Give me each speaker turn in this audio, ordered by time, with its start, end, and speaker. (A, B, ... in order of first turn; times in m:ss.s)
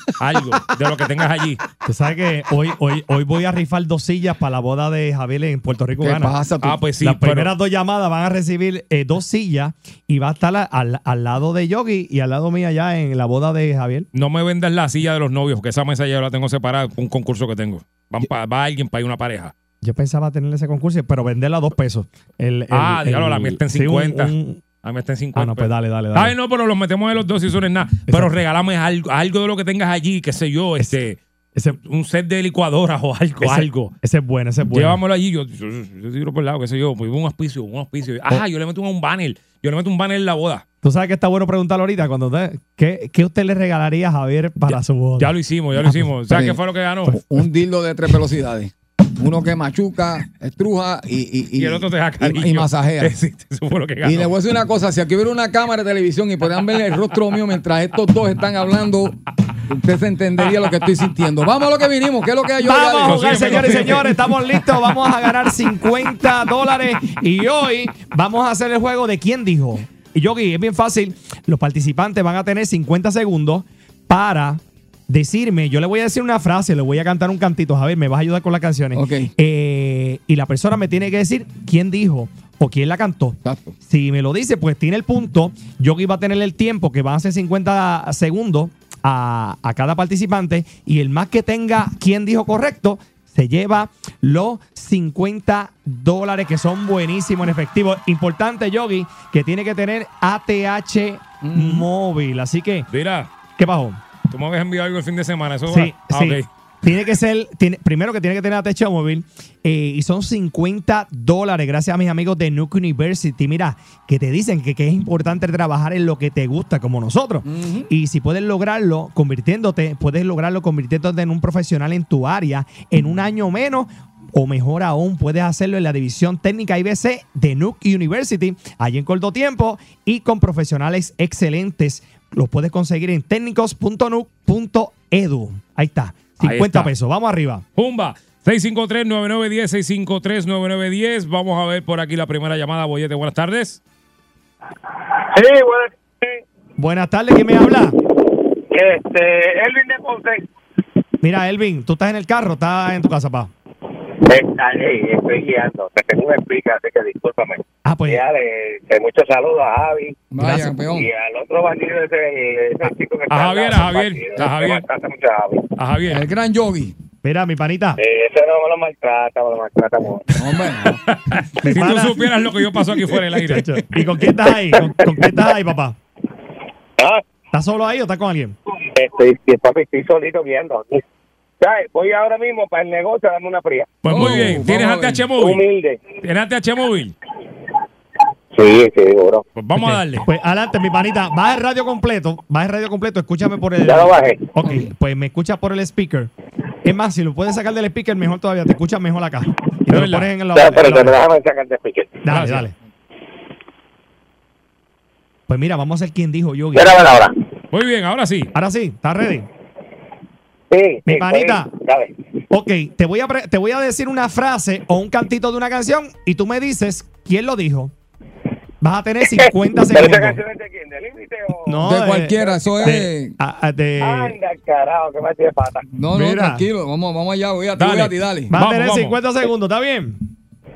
0:00.2-0:01.6 A
0:01.8-0:06.4 B
0:06.0-0:06.8 C
0:06.6-0:07.5 A
0:07.0-0:14.1 B
0:14.1-0:19.5 A
0:19.8-0:24.6 B
0:22.7-0:31.2 A
0:25.3-0:26.4 B
0:28.1-0:28.4 B
0:30.8-0:31.8 B
0:31.8-0:34.0 A
0:33.4-0:35.0 B
0:34.7-0:40.6 A
0:40.8-0:46.1 B
0:44.7-0:47.2 A
0:46.3-0:53.2 C
0:51.6-0:54.3 A
0:54.0-1:04.1 C
1:02.6-1:42.9 B
1:03.0-1:04.1 A
1:19.0-1:19.3 C
1:23.4-1:23.8 C
1:41.4-1:41.9 C
1:42.9-1:43.3 A
1:43.5-1:44.0 B
1:44.3-1:46.5 A
1:45.7-2:17.6 B
1:57.4-1:57.9 C
2:16.4-2:16.9 A
2:17.8-2:23.8 A
2:25.2-2:25.9 D
2:26.8-2:28.0 B
2:28.3-2:30.5 D
2:31.2-2:33.5 B
2:34.2-2:40.3 D
2:37.8-2:38.2 B
2:40.3-2:41.0 C
2:40.4-2:40.7 B
2:40.8-2:45.7 D
2:43.3-2:44.8 A
2:45.8-2:46.2 A
2:46.1-2:47.0 C
2:47.2-2:48.0 B
2:48.0-2:50.4 D
2:50.4-2:51.0 C
2:51.1-2:53.8 A
2:51.6-2:52.3 B
2:53.5-2:56.0 B
2:54.5-2:55.5 D
2:57.0-2:57.2 D
2:57.5-2:58.6 B
2:58.9-3:01.0 D
3:01.6-3:04.4 D
3:04.0-3:05.6 A
3:04.1-3:05.3 C
3:05.3-3:06.0 D
3:06.2-3:07.2 A
3:08.5-3:09.4 D
3:09.6-3:10.3 A
3:09.8-3:16.3 B
3:13.8-3:14.6 D
3:16.8-3:21.2 B
3:19.9-3:20.3 A
3:20.5-3:22.3 D
3:22.2-3:22.8 B
3:22.3-3:22.7 A
3:25.5-3:26.9 B
3:26.7-3:27.4 D
3:27.7-3:28.5 A
3:28.5-3:29.5 B
3:30.7-3:32.1 D
3:31.1-3:31.7 B
3:32.5-3:37.9 B
3:38.8-3:40.4 B
3:39.3-3:41.8 D
3:41.7-3:44.4 B
3:41.8-3:43.4 C
3:42.4-3:43.0 D
3:44.0-3:45.9 D
3:45.9-3:48.5 C
3:46.1-3:46.6 B
3:47.8-3:49.2 A
3:48.5-3:50.2 B